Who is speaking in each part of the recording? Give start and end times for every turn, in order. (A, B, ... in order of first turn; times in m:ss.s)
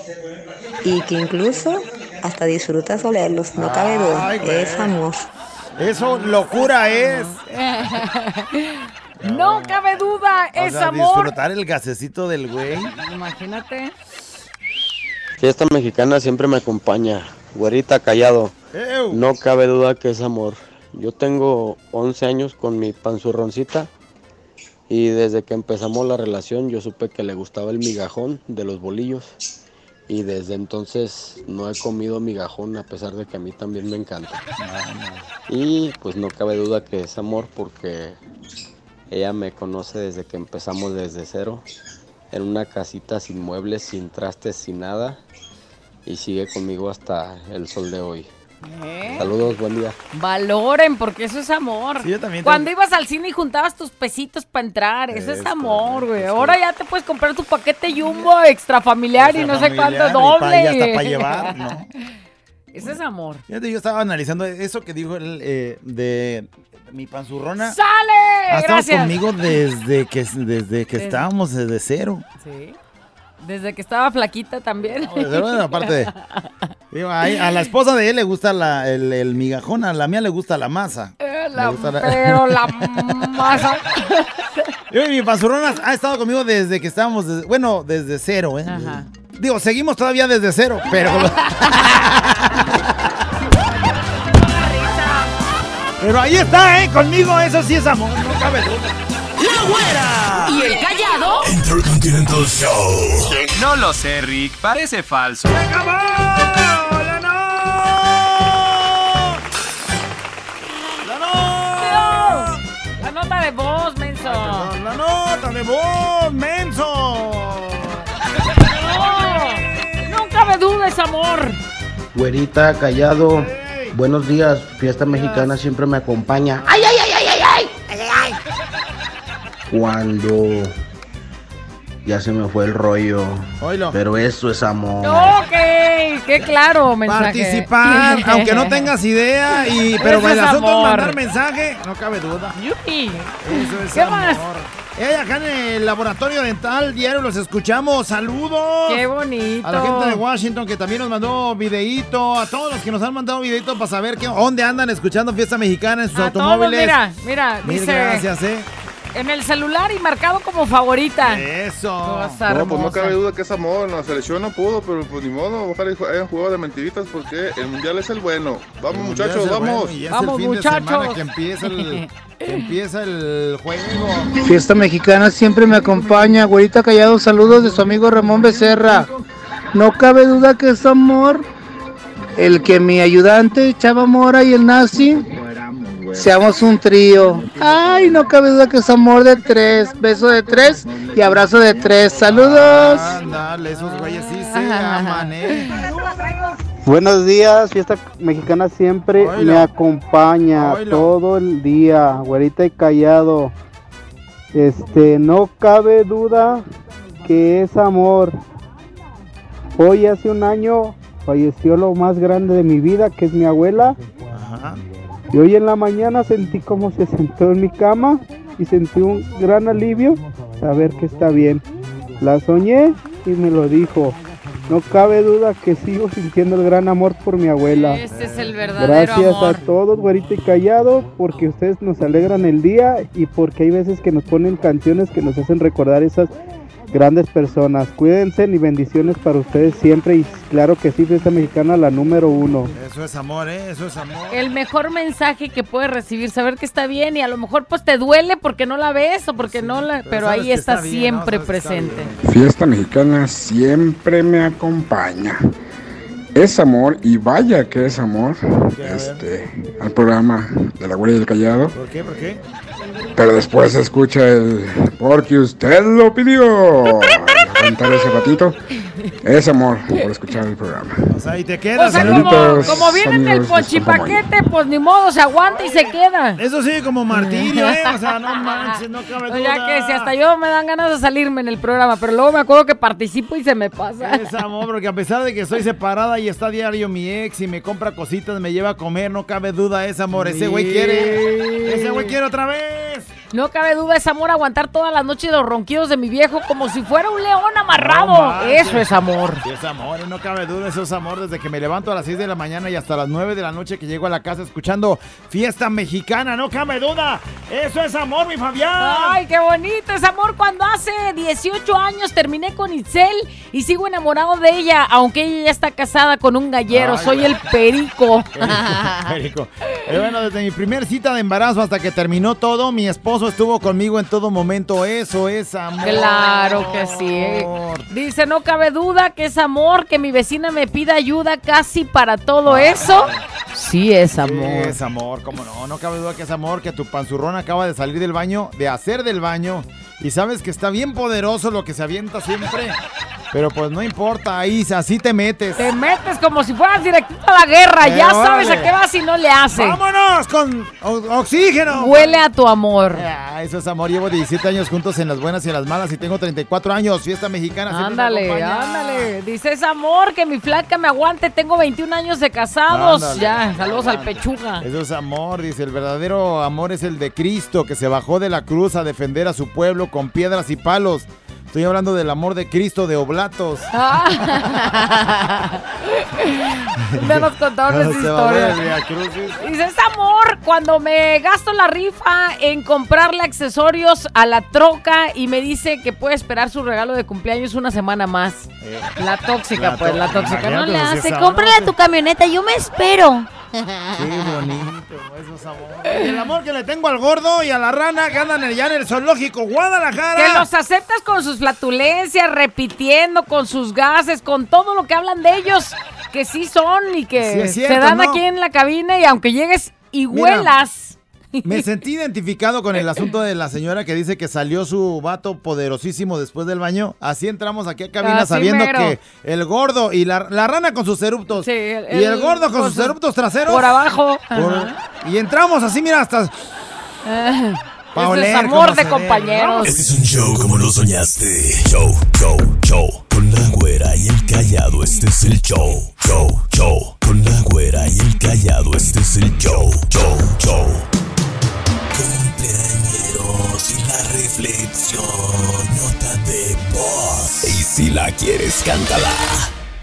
0:00.8-0:05.2 A
0:03.6-0:04.9 B
0:05.8-0:07.4 B
0:06.0-0:11.3 C
0:09.2-0:10.0 B
0:10.5-0:12.9 B
0:13.0-0:13.9 C
0:15.4-0:18.5 D
0:18.7-0:19.2 B
0:19.1-0:23.9 D
0:24.9-0:29.3 D
0:30.1-0:34.4 D
0:34.6-0:35.3 B
0:35.5-0:38.2 D
0:39.1-0:41.6 D
0:42.3-0:45.2 D
0:46.1-0:48.3 D
0:48.6-0:49.3 C
0:49.0-0:49.3 B
0:49.2-0:50.0 D
0:50.1-1:01.8 C
0:52.0-0:52.7 B
0:55.1-0:56.6 B
0:59.2-1:01.9 B
1:02.7-1:03.4 C
1:03.5-1:07.8 B
1:07.6-1:09.1 C
1:08.5-1:12.2 B
1:11.0-1:11.2 C
1:12.4-1:12.8 C
1:13.4-1:16.5 C
1:14.8-1:16.1 B
1:16.9-1:23.6 B
1:21.2-1:24.5 C
1:24.9-1:32.9 B
1:28.7-1:29.1 C
1:31.0-1:32.0 C
1:34.3-1:35.3 C
1:36.0-1:40.7 B
1:40.4-1:41.5 C
1:41.4-1:43.4 E
1:43.4-1:45.6 F
1:45.5-1:49.4 B
1:51.0-1:52.6 B
1:51.8-1:54.7 C
1:54.2-1:58.1 B
1:58.7-2:01.6 C
1:58.8-2:00.4 B
2:02.1-2:06.7 G
2:03.3-2:04.0 B
2:05.1-2:05.5 B
2:06.5-2:06.8 B
2:07.9-2:08.4 B
2:09.7-2:10.7 G
2:12.0-2:15.3 G
2:13.6-2:14.0 B
2:15.0-2:18.9 C
2:16.4-2:22.6 B
2:20.0-2:21.2 C
2:22.6-2:24.4 C
2:23.4-2:29.0 B
2:28.9-2:30.2 C
2:29.6-2:37.0 B
2:36.1-2:38.3 C
2:37.6-2:38.7 B
2:39.1-2:41.4 C
2:41.2-2:42.8 B
2:42.0-2:43.2 C
2:42.5-2:49.9 H
2:48.9-2:54.3 B
2:50.1-2:52.7 C
2:54.4-2:59.1 I
2:59.7-3:01.5 I
3:02.4-3:05.3 I
3:05.4-3:06.2 B
3:06.1-3:13.2 I
3:12.3-3:15.9 B
3:13.8-3:15.8 C
3:16.8-3:23.5 J
3:19.2-3:19.7 B
3:20.5-3:21.2 B
3:24.5-3:26.6 J
3:27.2-3:28.4 J
3:29.8-3:34.0 J
3:34.3-3:34.8 B
3:35.3-3:41.6 J
3:42.2-3:48.0 J
3:47.7-3:49.6 C
3:48.1-3:48.6 B
3:48.8-3:56.4 J
3:56.9-4:02.7 J
4:02.8-4:04.4 B
4:04.3-4:12.1 C
4:09.4-4:12.4 B
4:12.2-4:15.4 K
4:16.4-4:21.7 K
4:18.8-4:19.3 B
4:21.7-4:22.4 B
4:23.2-4:28.6 K
4:29.2-4:30.9 K
4:31.1-4:33.0 B
4:31.8-4:36.4 C
4:31.9-4:34.2 K
4:35.4-4:40.1 B
4:37.1-4:44.2 C
4:44.0-4:53.1 B
4:50.1-4:52.2 C
4:53.3-4:59.4 C
4:57.8-5:09.2 B
5:08.8-5:19.1 C
5:16.7-5:17.4 B
5:18.4-5:27.9 B
5:25.8-5:34.8 C
5:32.4-5:33.2 B
5:34.2-5:42.8 B
5:43.3-5:45.7 B
5:45.6-5:49.8 C
5:47.8-5:48.7 B
5:49.5-5:52.2 B
5:51.7-5:53.1 C
5:52.9-5:59.1 B
5:57.7-6:04.6 C
6:02.7-6:13.7 B
6:13.7-6:18.6 C
6:16.9-6:19.4 B
6:19.4-6:33.3 C
6:28.6-6:29.0 B
6:29.5-6:31.8 B
6:33.9-6:40.5 B
6:40.2-6:51.7 C
6:47.2-6:48.2 B
6:50.1-6:50.5 B
6:51.4-7:03.8 B
6:58.0-6:59.0 C
7:01.3-7:03.0 C
7:03.5-7:04.8 C
7:04.3-7:06.5 B
7:07.1-7:09.8 C
7:07.9-7:09.8 B
7:09.6-7:20.9 E
7:21.9-7:29.5 E